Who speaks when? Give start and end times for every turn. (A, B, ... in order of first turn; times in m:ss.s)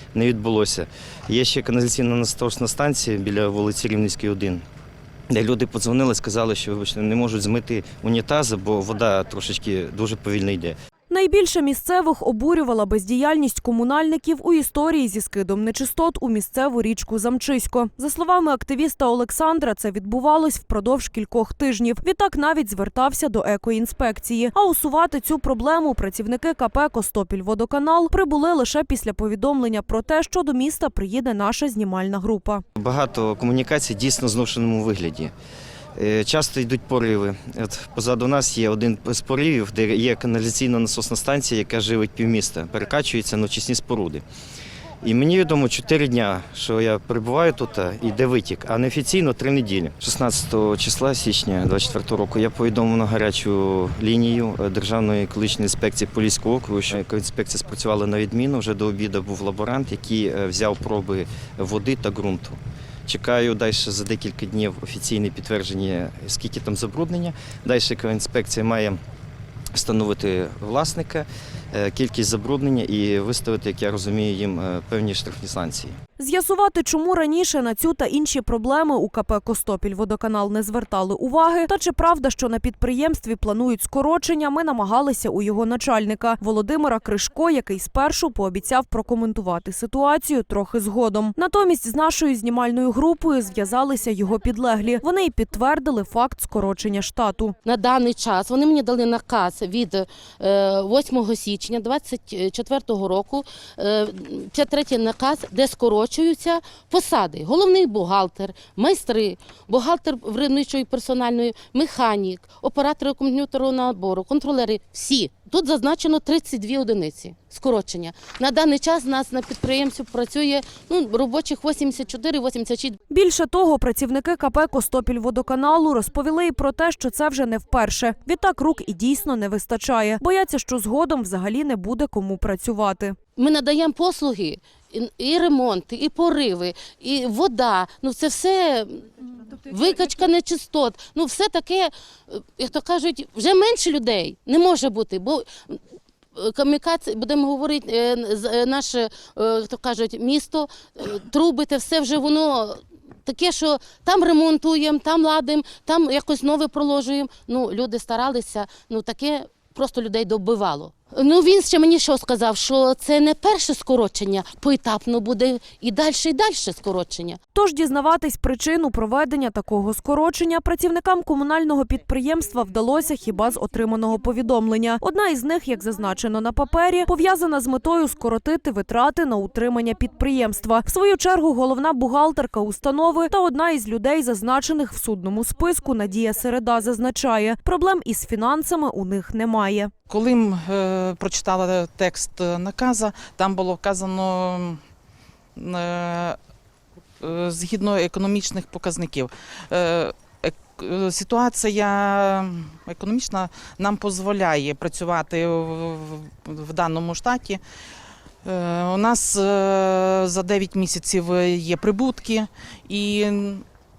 0:00.1-0:04.6 A
0:05.3-0:10.8 A
0:11.1-0:32.6 B
0:32.8-0:35.3 A
0:36.0-0:44.2 A
0:45.0-1:09.0 A
1:09.7-1:16.0 A
1:16.2-1:37.6 B
1:37.6-2:03.0 C
2:03.1-2:13.2 B
2:13.4-2:25.8 C
2:26.4-2:47.4 C
2:47.5-3:09.9 B
3:10.1-3:14.8 D
3:15.6-3:16.4 D
3:17.2-3:27.6 D
3:28.4-3:33.6 D